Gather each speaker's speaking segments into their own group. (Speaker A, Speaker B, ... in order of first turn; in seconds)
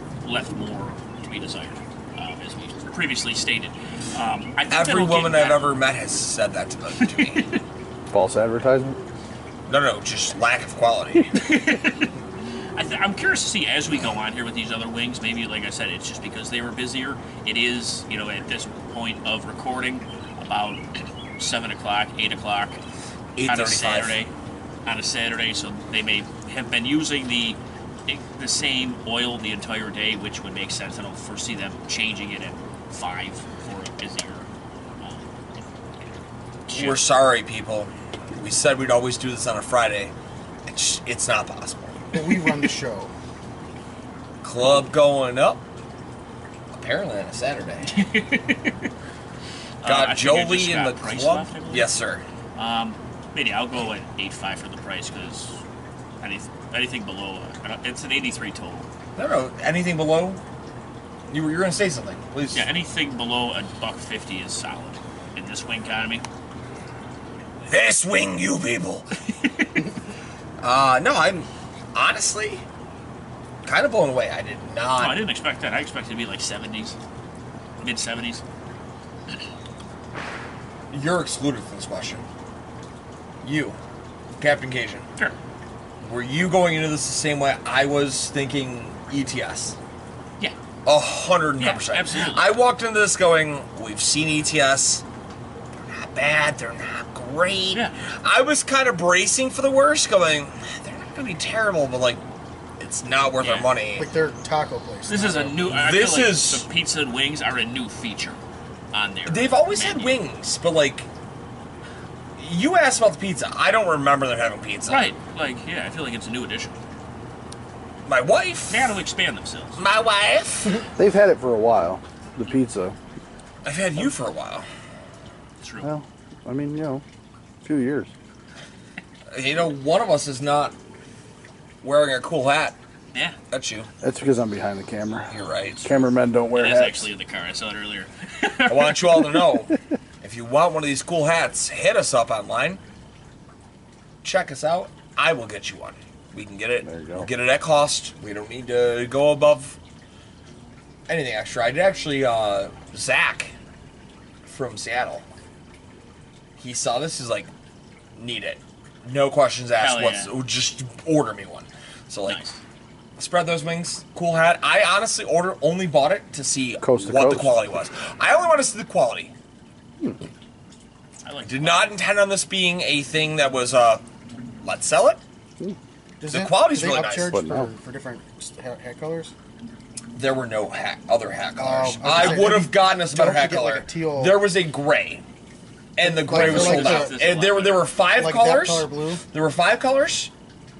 Speaker A: 0.2-5.7, 7.0-7.6, 11.3-12.1, 12.7-20.8, 21.4-22.8, 23.4-24.3, 24.8-34.5, 35.0-35.6, 36.7-37.0, 47.9-48.9, 49.8-51.9, 52.5-55.6, 56.2-58.9, 62.5-66.2, 69.3-69.8, 75.0-77.0, 77.8-78.4, 91.6-92.6, 103.4-103.7, 105.1-108.4, 108.9-110.2, 114.9-116.8, 118.7-119.8, 125.6-125.9, 136.5-139.4, 159.8-160.3, 162.3-162.6, 171.2-172.0, 186.3-187.9
Speaker B: 4.7-7.5, 9.7-11.5, 23.4-24.2, 36.7-40.1, 40.6-42.0, 44.4-45.6, 46.7-48.0, 49.8-52.2, 59.1-60.4, 61.3-62.7, 67.7-69.1, 70.6-72.6, 73.6-75.3, 80.9-82.2, 83.4-83.8, 84.4-85.0, 86.0-89.8, 90.8-95.0, 95.8-102.2, 102.8-104.1, 105.7-106.6, 109.3-111.1, 112.4-115.1, 118.0-119.0, 119.8-120.8, 123.6-124.7, 129.3-130.8, 131.8-132.8, 133.5-133.9, 135.3-135.9, 138.7-142.8, 144.2-149.8, 151.1-153.5, 154.4-155.2, 156.6-157.5, 158.2-162.4, 163.2-169.3, 171.4-174.0, 174.6-175.2, 176.3-177.3, 180.1-185.2, 185.9-190.3
Speaker C: 8.1-9.0, 121.0-123.0, 125.8-127.0, 127.6-128.1, 134.0-137.1, 146.8-147.3, 166.8-167.5, 177.2-177.7
Speaker D: 42.1-43.1, 104.0-105.6, 176.2-179.3, 181.6-184.4, 186.0-187.2, 188.0-189.2